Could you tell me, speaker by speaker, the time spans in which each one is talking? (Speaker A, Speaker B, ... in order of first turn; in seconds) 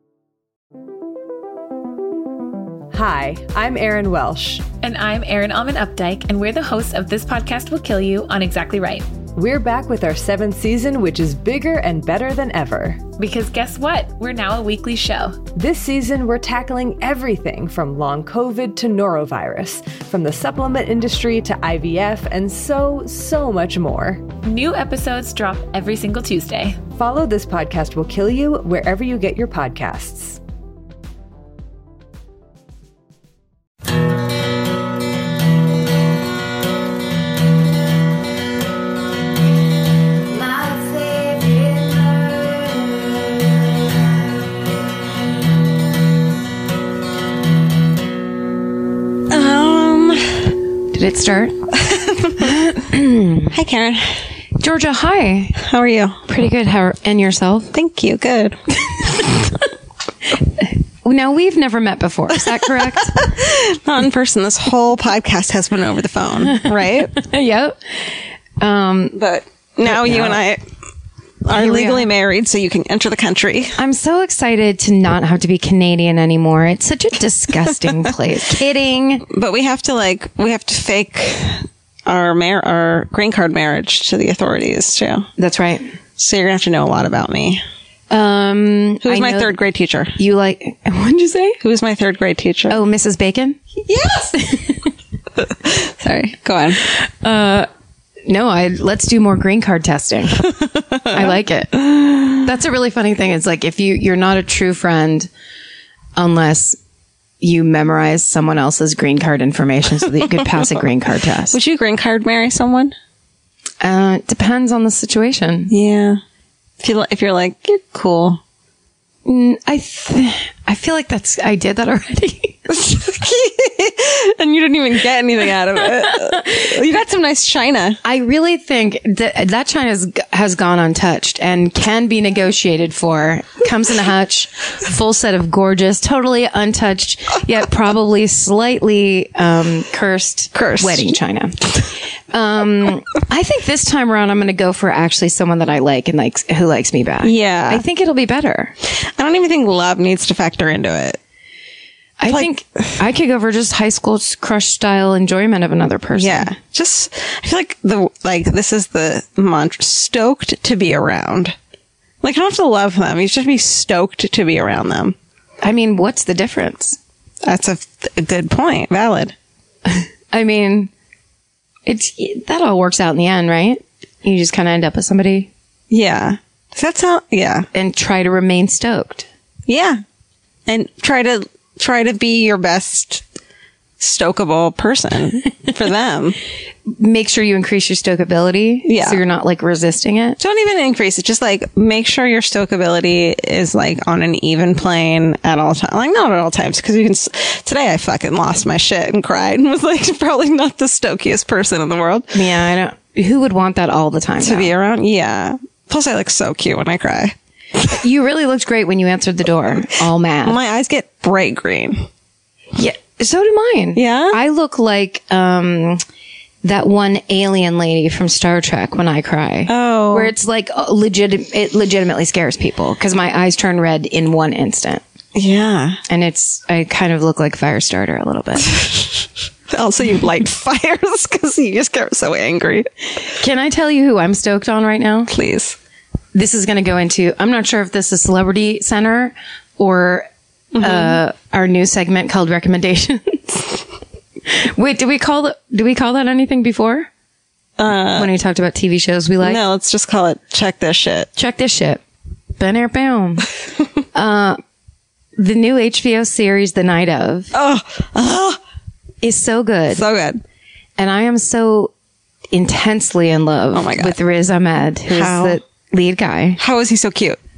Speaker A: 2.9-4.7, 9.3-13.0, 15.6-24.2, 26.9-30.4
Speaker B: 4.8-9.1, 13.2-15.4, 24.4-26.8
Speaker C: 40.4-42.0, 50.9-51.6, 52.4-53.5, 54.6-55.6, 56.3-57.7, 60.6-63.2, 66.5-69.2, 69.8-70.4, 71.5-72.1, 73.8-79.2, 85.4-85.9, 88.1-89.5, 90.2-91.6, 92.7-94.9, 96.9-97.7, 98.3-100.5, 101.1-105.3, 106.2-106.8, 107.4-111.6, 113.8-115.7, 119.2-122.6, 126.0-126.6, 128.0-141.7, 142.3-148.8, 152.2-156.5, 165.6-167.0, 170.3-170.9, 171.9-175.5, 177.7-179.3, 186.9-190.4, 202.3-204.7, 208.0-210.6, 212.8-216.0, 216.6-225.0, 226.1-228.8, 233.4-235.3, 236.3-240.3, 240.8-243.8, 244.5-247.1, 248.2-249.6, 251.4-252.0, 252.6-253.5, 254.1-254.6, 255.4-257.5, 259.2-260.0, 261.0-261.9, 262.5-266.6
Speaker D: 49.3-50.5, 51.7-52.7, 53.5-54.2, 55.6-56.2, 57.7-58.6, 62.3-67.1, 69.1-70.6, 71.4-73.8, 79.3-85.3, 86.2-87.6, 89.0-90.2, 91.6-92.8, 95.4-96.8, 101.0-101.3, 110.1-110.7, 111.5-113.0, 115.7-116.2, 116.8-118.4, 122.7-128.0, 140.5-141.1, 147.2-147.8, 148.8-151.2, 156.2-161.6, 162.2-165.2, 167.4-169.3, 175.9-177.7, 179.7-180.0, 180.7-183.2, 184.0-186.4, 188.8-189.2, 190.4-202.5, 204.4-208.0, 210.4-212.1, 213.9-214.4, 219.7-220.3, 225.3-226.0, 229.7-232.9, 235.3-235.8, 240.7-241.2, 247.8-248.3, 249.4-251.3, 257.5-258.6, 259.9-260.4, 263.7-264.1, 265.1-265.6, 266.6-267.4